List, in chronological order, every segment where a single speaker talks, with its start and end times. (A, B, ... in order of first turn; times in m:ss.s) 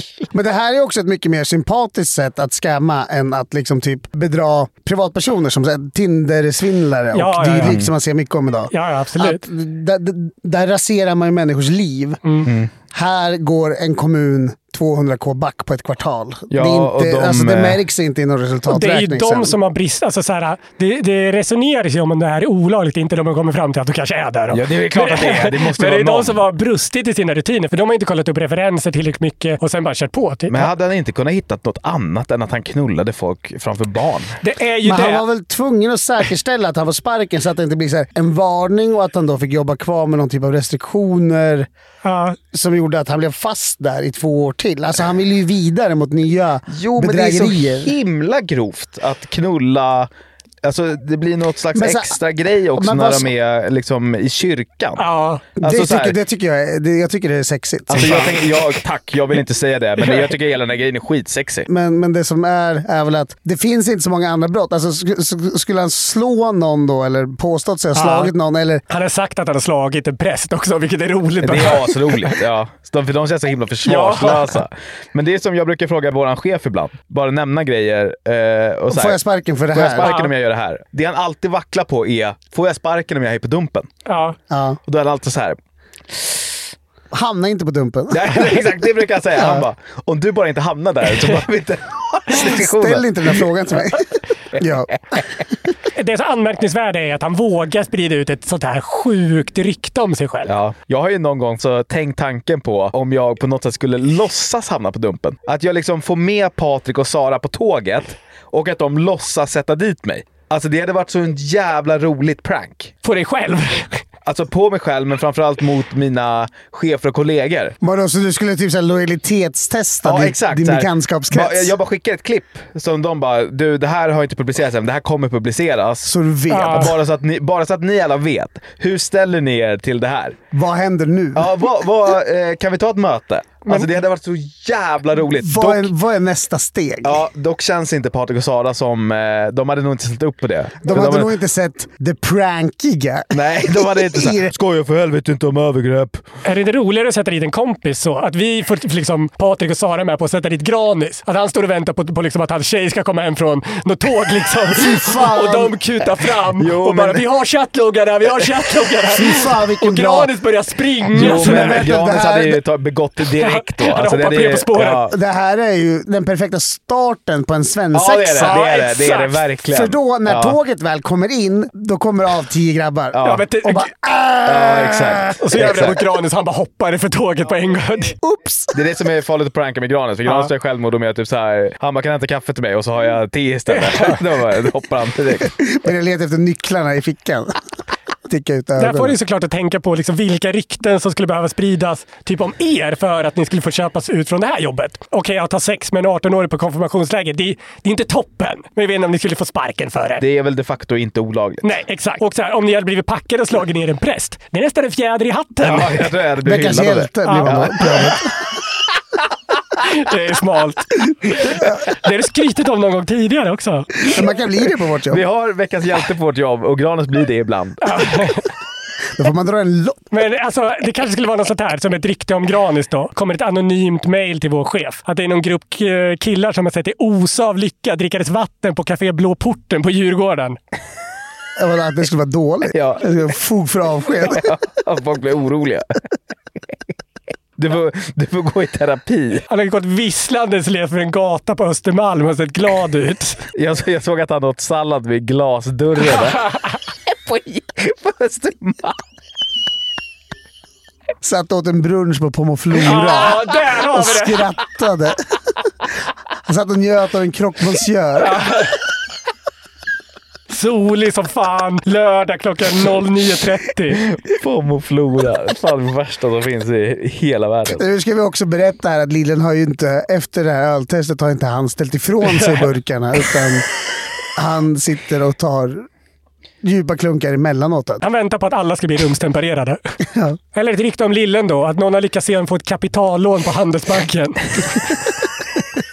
0:00.3-0:12.2 A
0:07.1-0:07.7 B
0:07.6-0:07.9 C
0:08.7-0:09.4 B
0:12.9-0:19.6 A
0:16.5-0:17.8 C
0:18.7-0:30.7 B
0:24.5-0:26.4 C
0:30.5-0:34.3 C
0:34.4-0:35.2 B
0:34.8-0:41.7 A
0:42.0-0:42.4 B
0:42.5-0:47.9 A
0:46.7-0:50.1 C
0:50.6-0:55.0 C
0:51.7-0:52.1 A
0:52.8-0:53.3 A
0:55.0-0:55.4 B
0:55.6-0:56.2 C
0:55.6-0:58.4 A
0:57.9-1:01.7 C
1:01.7-1:08.8 A
1:07.9-1:08.3 B
1:08.9-1:12.4 B
1:11.4-1:19.2 C
1:13.8-1:14.6 B
1:18.9-1:20.1 A
1:19.7-1:23.9 C
1:20.0-1:20.3 B
1:24.1-1:24.4 B
1:24.5-1:24.8 A
1:24.9-1:25.6 C
1:27.1-1:28.6 A
1:28.1-1:33.4 C
1:29.4-1:29.6 A
1:32.3-1:35.2 A
1:35.9-1:40.5 B
1:40.4-1:52.9 C
1:53.0-1:54.0 B
1:54.2-1:57.7 C
1:57.8-2:01.7 A
2:00.0-2:06.1 C
2:06.0-2:07.0 A
2:06.5-2:06.9 B
2:06.7-2:10.4 C
2:10.5-2:11.5 A
2:11.3-2:15.9 C
2:13.6-2:13.9 B
2:15.3-2:17.2 A
2:17.0-2:21.3 C
2:20.8-2:24.5 A
2:23.3-2:26.2 C
2:26.4-2:41.8 B
2:34.7-2:35.7 A
2:36.6-2:37.2 C
2:39.1-2:40.3 A
2:41.1-2:42.6 A
2:41.1-2:45.1 C
2:43.4-2:45.0 B
2:45.1-2:48.6 A
2:47.9-2:50.6 C
2:48.4-2:49.4 B
2:49.7-2:55.4 A
2:53.1-2:53.4 C
2:53.2-2:53.9 B
2:54.4-2:56.0 C
2:55.4-2:58.2 B
2:58.2-2:58.8 A
2:58.7-3:05.5 C
3:03.7-3:04.2 B
3:05.6-3:07.6 A
3:08.2-3:09.1 A
3:08.8-3:20.2 B
3:20.2-3:21.6 C
3:21.6-3:26.0 B
3:25.6-3:27.9 C
3:26.4-3:28.3 A
3:27.2-3:28.0 B
3:29.8-3:34.1 B
3:34.0-3:35.2 A
3:35.1-3:38.0 C
3:37.8-3:38.4 B
3:39.2-3:40.0 A
3:40.1-3:50.6 B
3:51.6-3:54.4 A
3:52.7-3:53.0 C
3:54.3-3:55.9 C
3:57.6-3:59.4 C
3:59.5-4:03.4 B
4:03.6-4:06.4 C
4:07.1-4:09.0 C
4:11.2-4:15.4 A
4:12.8-4:14.5 B
4:16.4-4:18.4 A
4:18.2-4:18.8 B
4:20.5-4:24.0 B
4:24.1-4:27.8 C
4:27.7-4:33.7 A
4:34.4-4:35.9 A
4:36.6-4:38.0 A
4:38.0-4:39.9 B
4:40.1-4:40.4 A
4:40.5-4:44.8 B